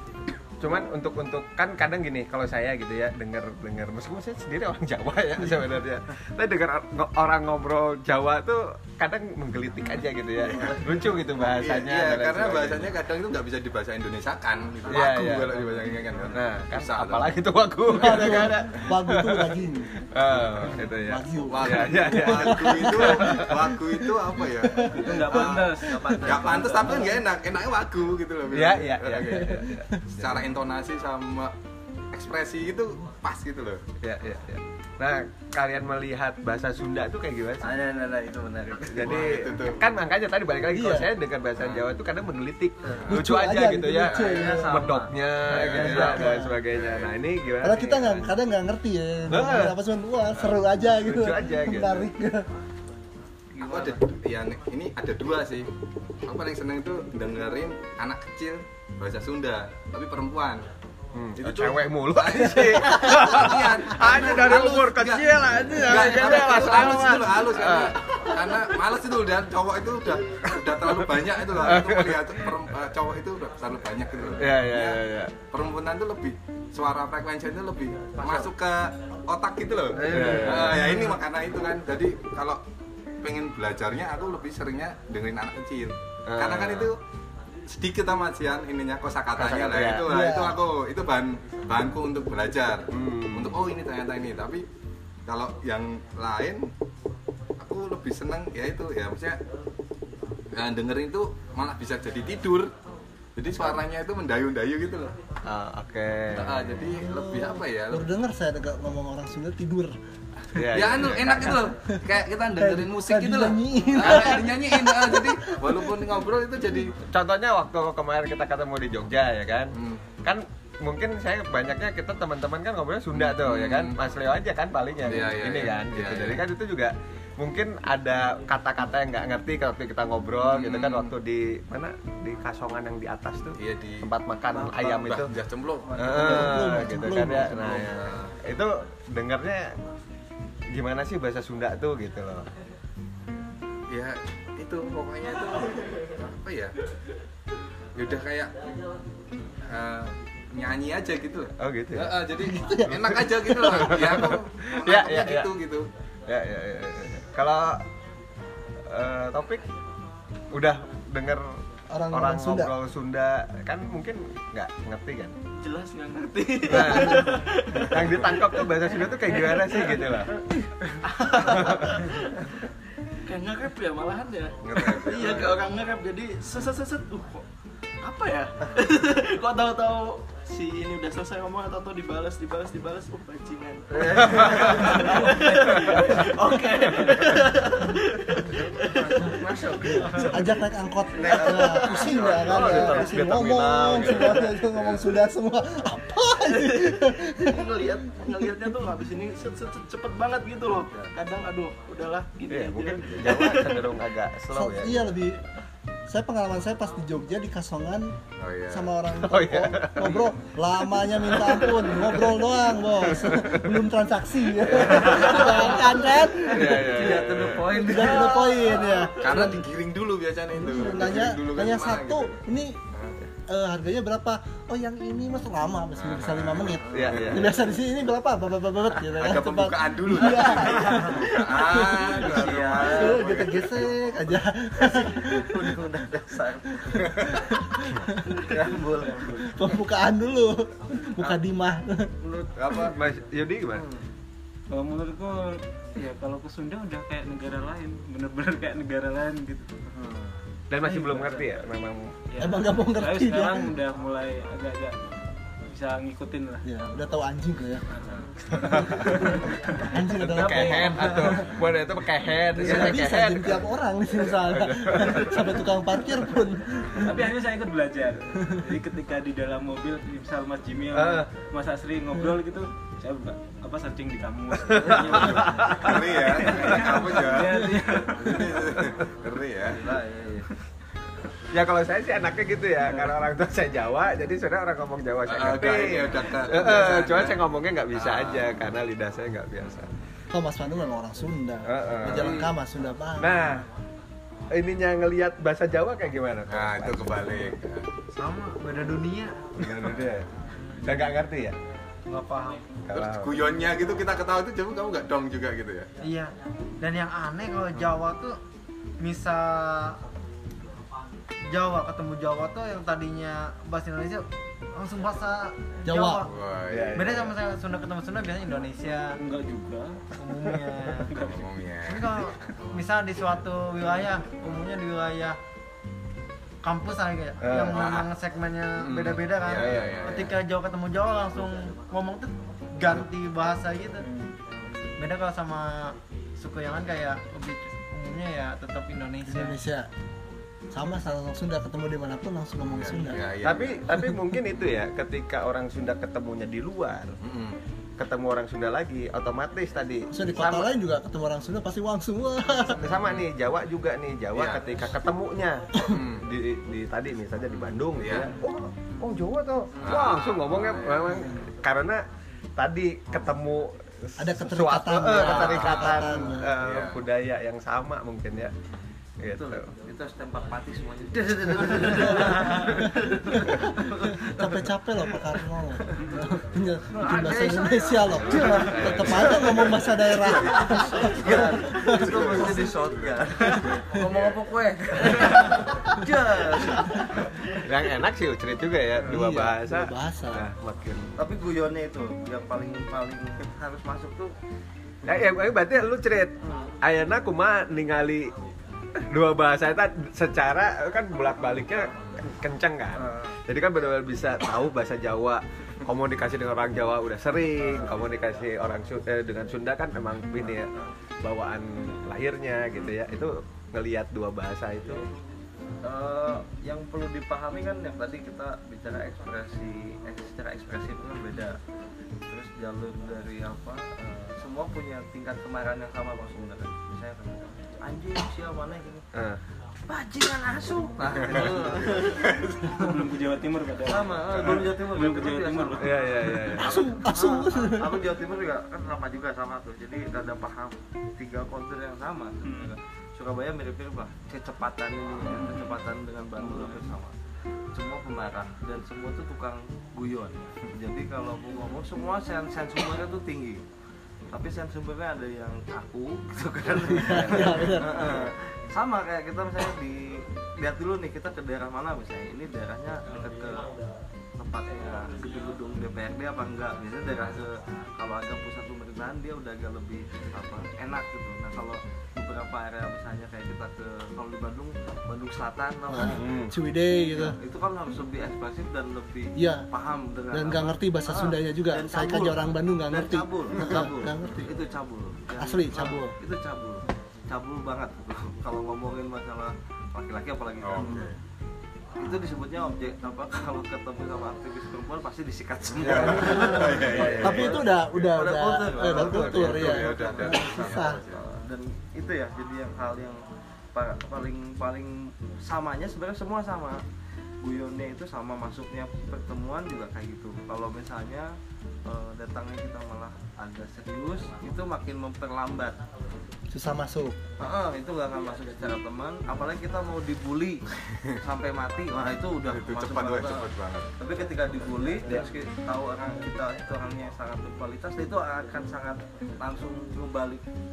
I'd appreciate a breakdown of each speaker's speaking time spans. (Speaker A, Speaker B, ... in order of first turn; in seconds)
Speaker A: 0.6-12.9, 14.9-15.7, 16.3-19.6, 20.1-23.8, 28.5-30.5, 34.0-37.7, 38.8-48.3, 49.3-49.7, 50.8-52.0, 61.1-68.0, 71.5-72.5, 74.4-75.3, 80.0-81.0, 86.3-86.9, 89.3-90.1, 92.9-93.6, 105.5-106.7, 110.5-111.7, 117.0-135.3, 136.0-139.7, 140.7-142.5, 151.6-152.2, 152.9-155.5, 156.3-157.8, 158.8-159.6, 160.5-161.6, 162.1-165.3, 166.6-170.3, 171.5-171.8, 192.3-195.0, 202.5-205.2, 209.1-210.3, 211.2-212.4, 213.0-213.7, 214.7-215.7, 216.4-217.7, 226.9-227.6, 242.6-243.8, 250.7-252.1, 258.7-259.3, 260.2-263.6, 264.2-265.7, 270.9-271.2, 274.7-275.2, 278.3-278.9, 281.5-289.9, 291.6-292.4, 293.2-293.6, 294.5-297.6, 299.6-300.2, 300.8-301.5, 302.8-303.4, 316.7-317.3, 327.4-327.9, 329.5-330.2, 343.4-347.1, 348.0-350.1, 352.8-362.0, 362.6-368.5, 369.2-369.7, 378.4-379.6, 387.6-391.1, 395.0-398.3, 399.1-410.7, 411.2-415.1, 429.1-429.4, 435.8-436.7, 446.4-446.8, 457.1-458.1, 476.0-476.5, 495.8-497.5
Speaker B: 10.5-10.8, 11.4-18.6, 21.5-29.6, 30.1-31.5, 32.1-33.8, 39.0-39.8, 41.6-41.9, 45.7-46.2, 46.7-47.1, 53.7-55.7, 56.2-60.6, 61.4-82.6, 83.2-87.0, 87.7-94.6, 95.3-96.7, 97.6-99.4, 100.5-102.7, 103.3-105.1, 106.3-108.0, 110.7-116.9, 119.7-120.0, 123.1-124.0, 125.0-126.4, 130.5-131.1, 133.6-135.9, 137.3-138.3, 143.9-146.7, 147.9-148.5, 149.7-155.8, 174.6-175.6, 192.1-192.7, 208.4-208.9, 219.2-222.3, 225.9-227.5, 229.2-233.7, 275.8-279.8, 285.2-287.4, 287.9-288.5, 296.5-297.9, 302.9-305.9, 316.2-317.2, 321.3-322.3, 327.7-328.1, 328.8-330.4, 342.7-343.8, 347.2-347.6, 352.9-353.3, 354.3-354.9, 355.9-356.2, 358.0-358.3, 359.8-361.3, 365.1-367.1, 378.1-379.3, 380.2-380.6, 381.9-383.8, 431.3-432.6, 490.6-491.2, 495.8-497.7, 498.9-501.2, 522.5-523.9
Speaker C: 14.8-15.2, 25.8-27.2, 37.6-39.3, 42.8-43.1, 44.0-45.1, 45.7-46.0, 53.5-54.0, 78.2-78.5, 79.9-81.0, 135.8-136.7, 183.9-186.1, 188.4-190.4, 191.2-193.1, 215.1-215.5, 216.6-219.5, 226.8-227.3, 230.7-231.1, 232.0-233.2, 234.8-237.1, 238.4-239.4, 242.2-242.9, 243.7-244.1, 249.9-250.4, 262.6-262.9, 274.7-275.9, 279.7-280.5, 292.1-292.5, 350.3-350.7, 357.5-357.9, 358.9-359.2, 359.7-360.1, 369.3-375.3, 376.9-387.2, 391.2-394.3, 396.4-396.7, 402.9-403.4, 410.4-410.9, 415.8-421.6, 422.3-429.0, 429.9-432.2, 433.8-447.1, 447.7-453.6, 454.3-463.7, 464.4-476.2, 477.1-491.0, 492.0-503.2, 503.7-506.8, 507.4-511.3, 511.8-515.8, 517.4-520.6, 521.2-530.5
Speaker D: 17.9-19.9, 20.6-23.9, 24.5-25.2, 29.4-30.0, 40.7-41.1, 43.1-44.8, 45.5-46.6, 47.6-52.4, 90.0-90.6, 106.9-109.9, 112.5-115.9, 136.0-137.9, 152.4-153.8, 161.9-162.7, 190.3-197.6, 204.5-205.4, 206.1-208.1, 208.7-216.9, 217.7-219.6, 220.5-222.8, 223.5-232.1, 232.8-235.7, 237.5-238.1, 239.5-242.1, 252.4-253.7, 256.6-257.8, 259.3-261.5, 262.6-267.2, 290.3-293.5, 315.8-316.2, 339.3-339.9, 340.7-343.2, 350.1-352.9, 364.2-366.5, 371.8-382.4, 389.0-390.5, 436.6-437.9, 456.9-458.0, 475.9-477.4, 479.4-479.6, 480.3-484.5, 485.4-486.1, 490.8-491.1, 496.1-501.0, 516.5-517.1
Speaker E: 24.9-26.2, 239.1-239.4, 244.7-249.7, 250.8-251.6, 252.3-254.9, 255.7-256.6, 257.9-261.4, 267.0-278.6, 319.2-320.0, 320.6-321.5, 376.0-376.3, 432.6-436.3, 442.4-442.7
Speaker F: 165.6-170.4, 171.0-172.6, 173.2-177.4, 178.0-190.6, 191.2-192.1, 196.6-203.9
Speaker G: 298.1-299.4, 302.1-302.6, 306.0-308.4, 309.0-310.0, 311.5-316.3, 316.9-319.2, 320.1-321.1, 321.8-325.4, 326.6-334.0, 335.0-339.6